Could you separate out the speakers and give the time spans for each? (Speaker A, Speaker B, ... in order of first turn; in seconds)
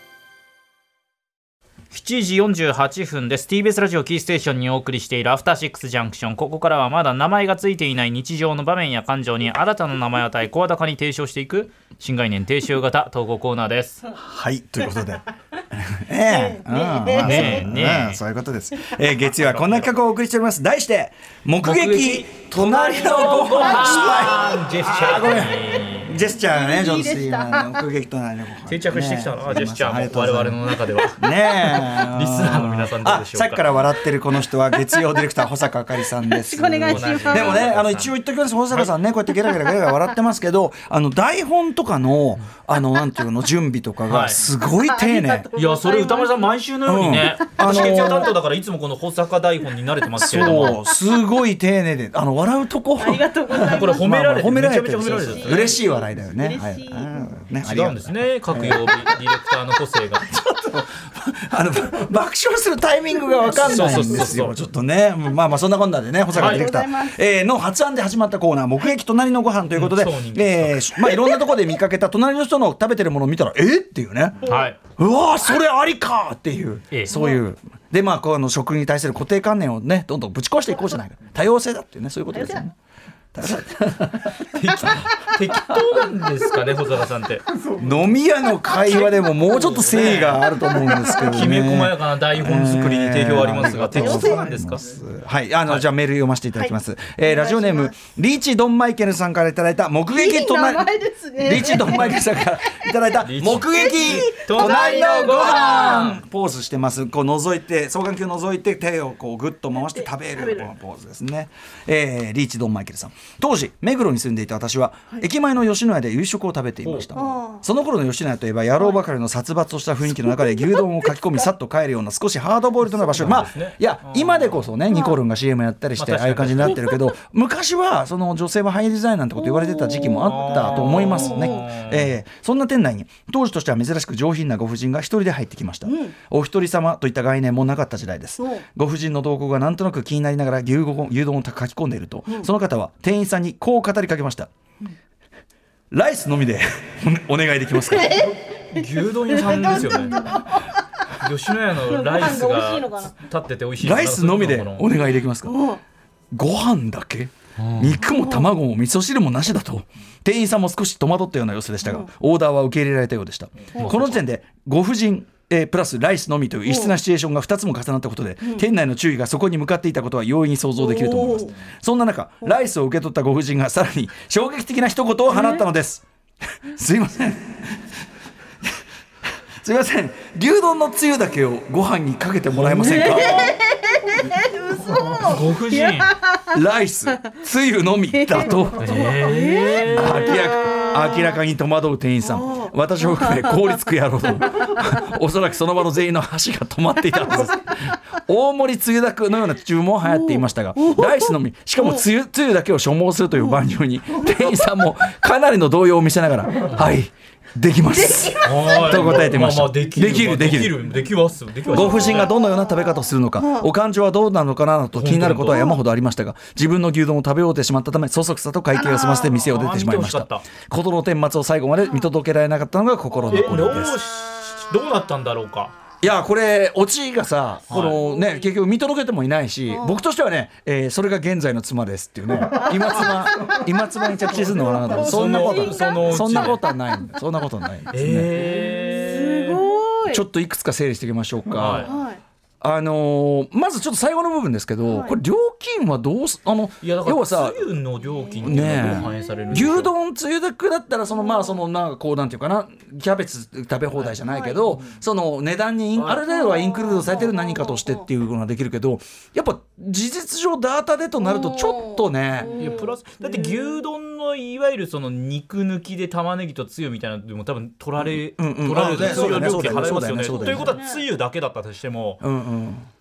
Speaker A: 1.9-14.0, 17.2-18.2, 19.2-19.9, 21.6-26.2, 28.7-33.6, 36.8-38.1, 44.0-44.4, 45.5-50.8, 53.6-55.8, 57.6-60.3, 63.6-64.6, 66.3-66.6, 69.7-70.9, 74.4-74.8, 84.4-87.5, 89.4-90.4, 91.2-94.8, 103.2-106.2, 116.8-117.1, 122.8-124.7, 126.0-126.8, 130.0-132.1, 148.7-150.3, 151.2-154.9, 157.6-157.9, 163.7-164.3, 182.5-183.1, 185.2-186.2, 188.8-190.3, 208.4-212.3, 214.9-215.7, 219.3-220.4, 223.3-225.7, 227.7-228.0, 234.7-236.6, 237.9-239.6, 241.5-241.9, 246.8-249.9, 255.9-256.2, 262.5-272.2
Speaker B: 14.2-30.6, 31.1-45.5, 46.8-48.3, 50.2-59.0, 60.2-82.7, 83.3-85.0, 87.7-144.5, 145.9-148.3, 153.8-155.6, 156.3-176.0, 176.6-177.8, 179.6-183.6, 186.5-189.1, 189.9-210.8, 211.7-224.0, 226.0-238.3, 240.1-241.9, 242.6-247.7, 248.4-262.8, 268.0-270.8, 272.2-272.9
Speaker C: 16.3-17.6, 22.7-24.6, 26.4-27.8, 36.0-37.7, 39.4-39.9, 44.6-46.5, 47.6-48.2, 53.0-54.1, 55.1-57.2, 66.3-67.2, 77.2-77.4, 82.3-82.6, 88.6-89.5, 90.8-91.2, 93.9-94.4, 96.5-97.9, 100.1-102.2, 103.7-106.1, 109.8-110.7, 117.1-117.6, 120.2-121.3, 124.9-125.2, 129.3-131.6, 135.8-136.1, 138.4-138.6, 147.9-150.7, 151.8-153.1, 155.4-155.8, 158.0-158.5, 161.8-162.1, 166.7-167.0, 170.8-171.5, 175.3-175.6, 182.8-186.5, 188.1-191.3, 192.2-193.7, 200.1-202.1, 204.2-204.6, 207.9-209.3, 211.7-213.7, 218.7-219.4, 227.9-228.5, 229.7-230.0, 232.5-233.6, 234.3-236.2, 238.6-240.2, 241.8-242.2, 244.8-245.2, 251.1-251.6, 254.2-254.8, 256.3-258.1, 261.2-262.9, 269.1-269.5, 270.2-271.0